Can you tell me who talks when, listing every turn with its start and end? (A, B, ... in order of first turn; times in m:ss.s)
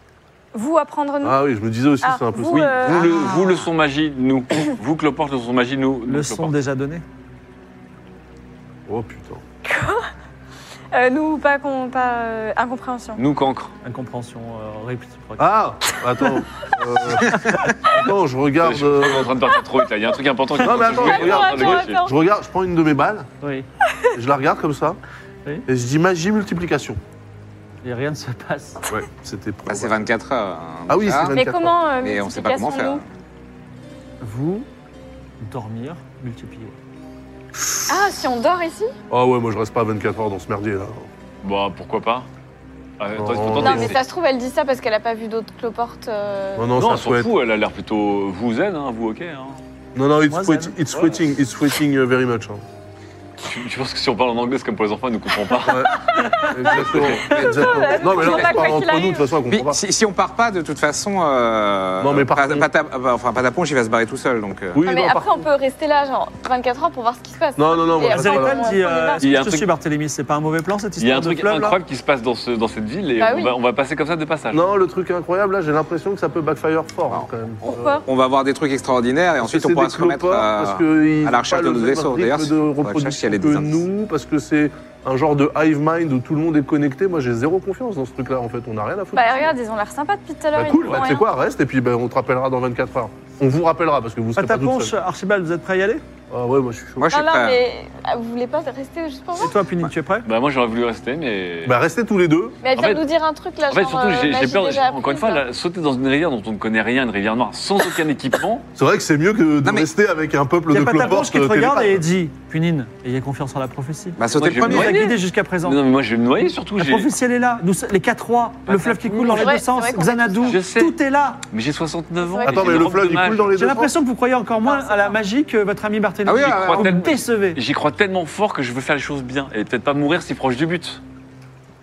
0:00.5-0:01.4 A
0:01.2-0:03.0 B
0:02.0-0:03.6 A
0:02.5-0:06.6 C
0:03.0-0:03.5 D
0:06.1-0:07.0 E
0:08.9-0:09.4 B
0:09.6-0:10.1 A
0:10.9-0:13.2 A
0:13.2-0:13.7 C
0:13.8-0:15.5 E
0:15.4-0:19.3 B
0:18.6-0:22.0 C
0:20.6-0:23.3 B
0:20.6-0:22.1 A
0:23.4-0:23.7 E
0:24.1-0:25.0 B
0:25.7-0:27.0 B
0:27.8-0:28.9 E
0:28.9-0:30.1 B
0:29.7-0:31.4 D
0:30.9-0:31.8 B
0:31.3-0:33.0 A
0:32.0-0:33.0 D
0:34.2-0:34.7 E
0:35.4-0:36.8 E
0:37.9-0:38.9 A
0:39.1-0:41.1 B
0:41.4-0:42.3 C
0:43.0-0:44.0 C
0:43.2-0:44.0 B
0:43.6-0:46.7 A
0:46.6-0:47.3 B
0:46.8-0:49.6 C
0:50.0-0:52.6 B
0:50.3-0:50.8 E
0:50.9-0:51.2 C
0:53.4-0:56.0 C
0:55.6-0:59.8 B
0:55.9-0:56.7 E
0:56.7-0:57.3 C
0:57.3-0:59.3 A
0:59.5-1:04.8 D
1:02.0-1:02.7 B
1:04.7-1:05.4 B
1:04.8-1:09.2 A
1:07.6-1:08.6 B
1:08.1-1:11.8 E
1:09.2-1:09.7 C
1:11.0-1:14.6 C
1:13.2-1:13.6 A
1:14.5-1:18.0 B
1:17.1-1:23.8 D
1:17.7-1:18.0 A
1:19.4-1:29.6 B
1:29.1-1:31.3 A
1:30.6-1:34.9 B
1:34.4-1:36.0 E
1:36.3-1:37.1 B
1:37.0-1:37.6 D
1:37.1-1:39.5 A
1:39.4-1:40.3 E
1:40.2-1:41.8 C
1:41.6-1:42.6 B
1:42.6-1:45.4 A
1:42.8-1:43.0 C
1:43.7-1:48.7 C
1:48.8-1:52.0 B
1:50.7-1:55.8 E
1:54.2-1:55.0 D
1:54.3-1:57.1 C
1:56.8-2:01.4 E
1:58.7-1:59.6 C
1:59.3-2:00.6 A
2:00.5-2:01.0 C
2:01.5-2:03.5 C
2:02.3-2:02.6 A
2:02.4-2:03.9 B
2:03.5-2:07.6 E
2:04.6-2:05.2 A
2:06.2-2:06.9 D
2:06.3-2:11.0 C